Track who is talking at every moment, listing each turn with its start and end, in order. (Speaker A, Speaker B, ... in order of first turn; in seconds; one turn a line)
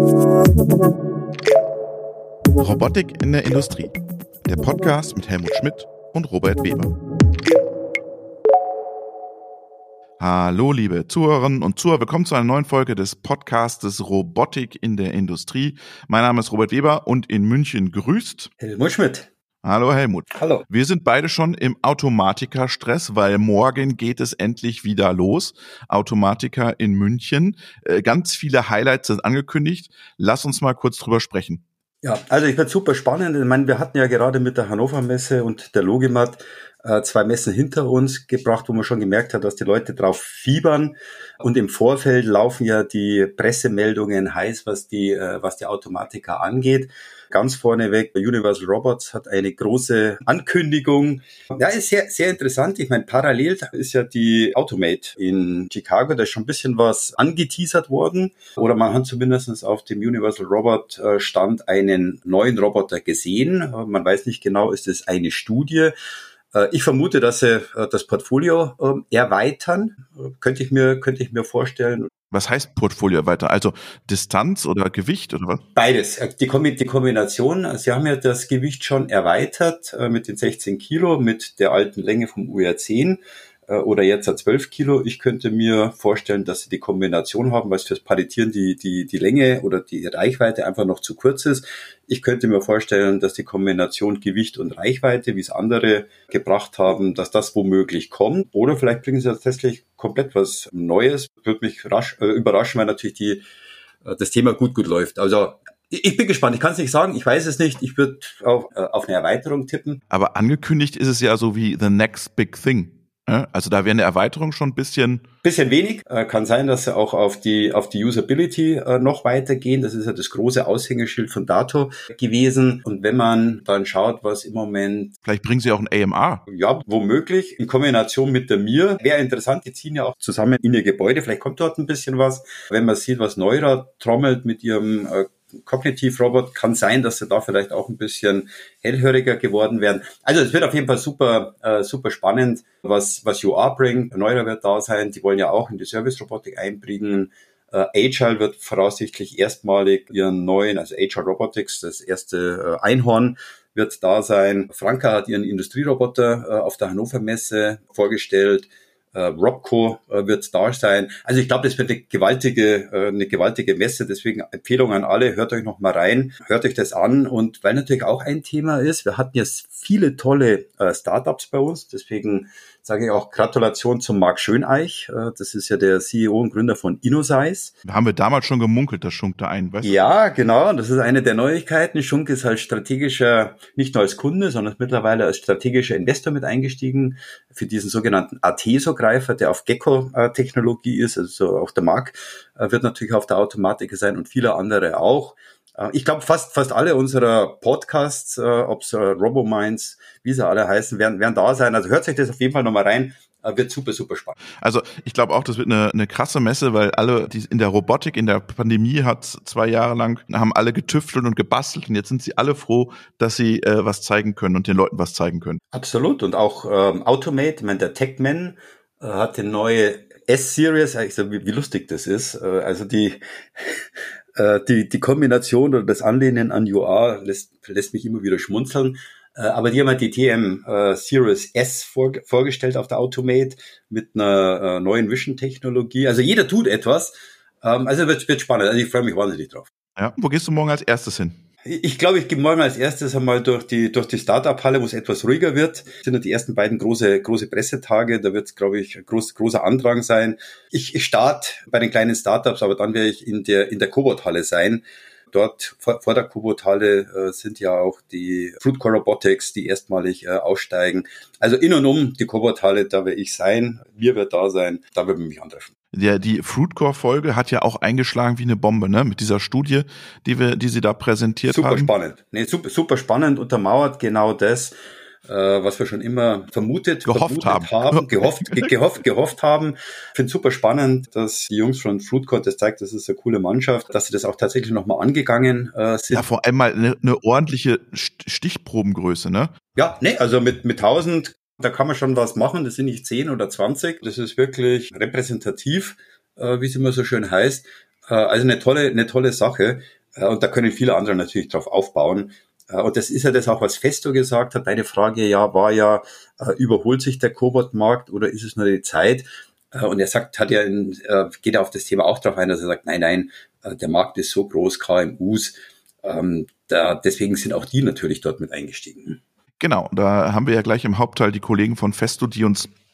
Speaker A: 2.6-6.9
Speaker A: 10.2-18.5
Speaker B: 18.6-19.3
Speaker A: 19.6-31.6
Speaker B: 20.3-20.6
Speaker B: 32.0-65.9
Speaker B: 66.5-72.1
Speaker A: 72.3-75.6
Speaker B: 75.8-103.4
Speaker B: 104.0-110.0
Speaker A: 110.1-115.2
Speaker B: 115.4-125.1
Speaker A: 125.2-126.4
Speaker B: 126.5-177.7
Speaker A: 177.8-180.0
Speaker B: 179.8-204.4
Speaker A: 204.6-215.6
Speaker B: 215.7-223.7
Speaker B: 224.4-239.7
Speaker A: 240.0-241.4
Speaker B: 241.7-265.7
Speaker A: 265.9-271.9
Speaker B: 271.5-274.7
Speaker B: 275.3-286.2
Speaker A: 277.1-278.7
Speaker A: 286.1-289.5
Speaker B: 289.8-319.2
Speaker A: 319.6-322.7